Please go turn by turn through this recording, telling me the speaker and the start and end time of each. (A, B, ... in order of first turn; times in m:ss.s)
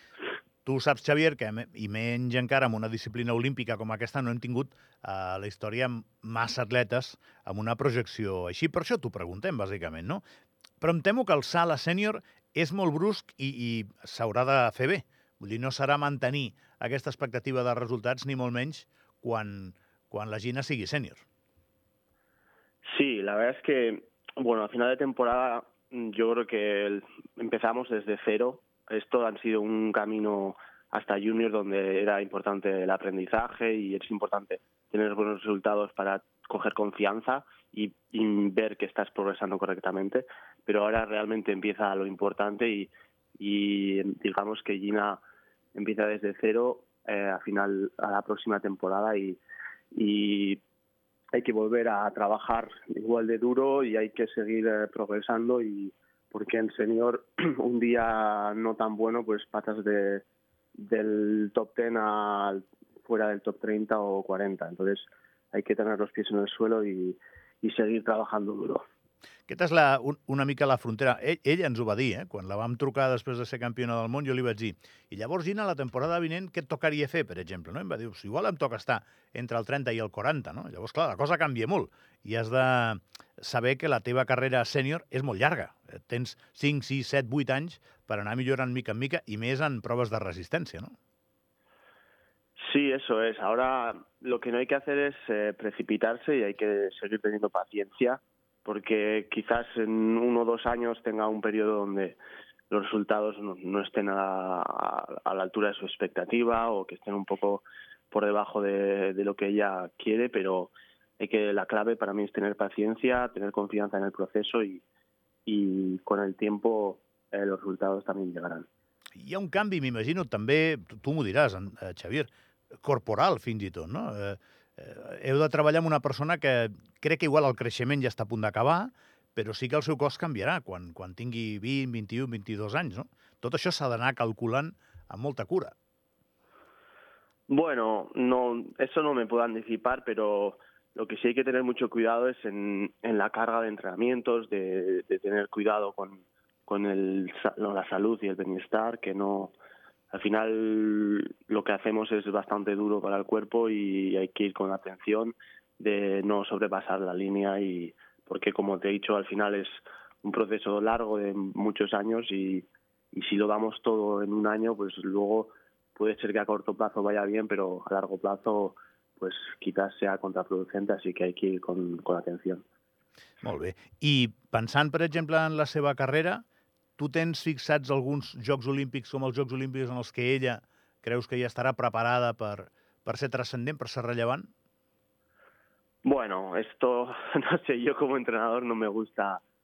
0:00.6-0:10.2 A
0:10.8-0:21.2 A
0:22.8-0:45.2 B
0:45.7-0:49.4 B
0:49.9-0:50.6 B
0:51.3-1:00.2 B
1:00.8-1:08.8 B
1:09.5-1:30.9 A
1:32.6-1:42.2 B
1:42.7-1:54.8 B
1:55.4-1:58.7 B
1:59.2-2:02.3 A
2:02.8-2:15.7 A
2:17.5-2:29.5 B
2:30.1-2:52.6 B
2:53.4-2:56.4 A
2:57.0-3:04.5 A
3:06.0-3:09.4 B